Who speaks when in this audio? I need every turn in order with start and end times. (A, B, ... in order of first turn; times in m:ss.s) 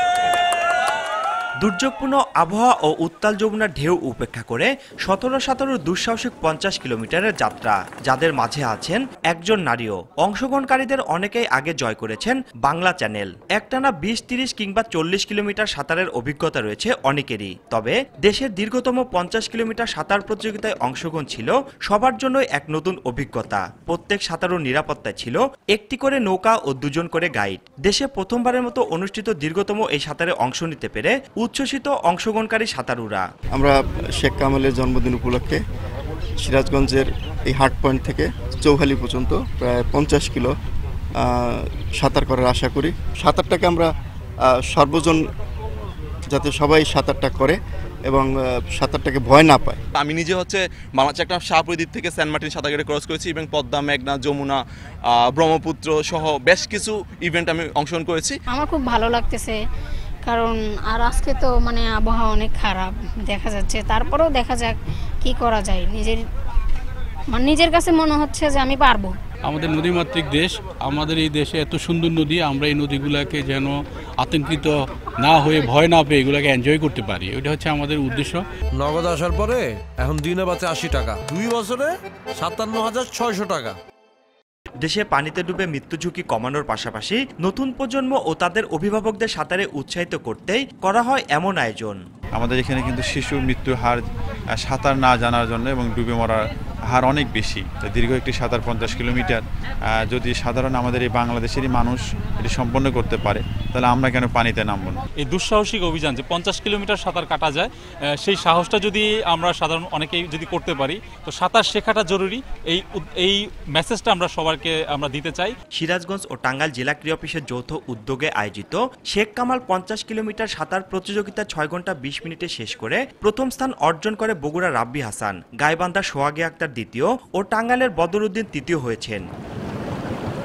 0:01.6-0:33.2 A
0:33.5-0:35.6 B
0:36.4-0:40.5 B
0:41.2-0:43.9 B
0:44.5-0:45.2 B
0:46.3-0:47.6 B
0:48.1-0:49.8 B
0:50.0-0:54.6 C
0:55.1-0:58.3 C
0:58.5-0:59.6 D
1:00.2-1:06.2 D
1:07.3-1:09.2 D
1:09.4-1:18.4 E
1:18.8-1:23.7 F
1:24.8-1:32.0 A
1:32.3-1:34.0 G
1:34.6-1:39.4 G
1:39.9-1:45.0 G
1:45.2-1:47.7 H
1:48.2-1:55.5 H
1:55.8-2:09.2 A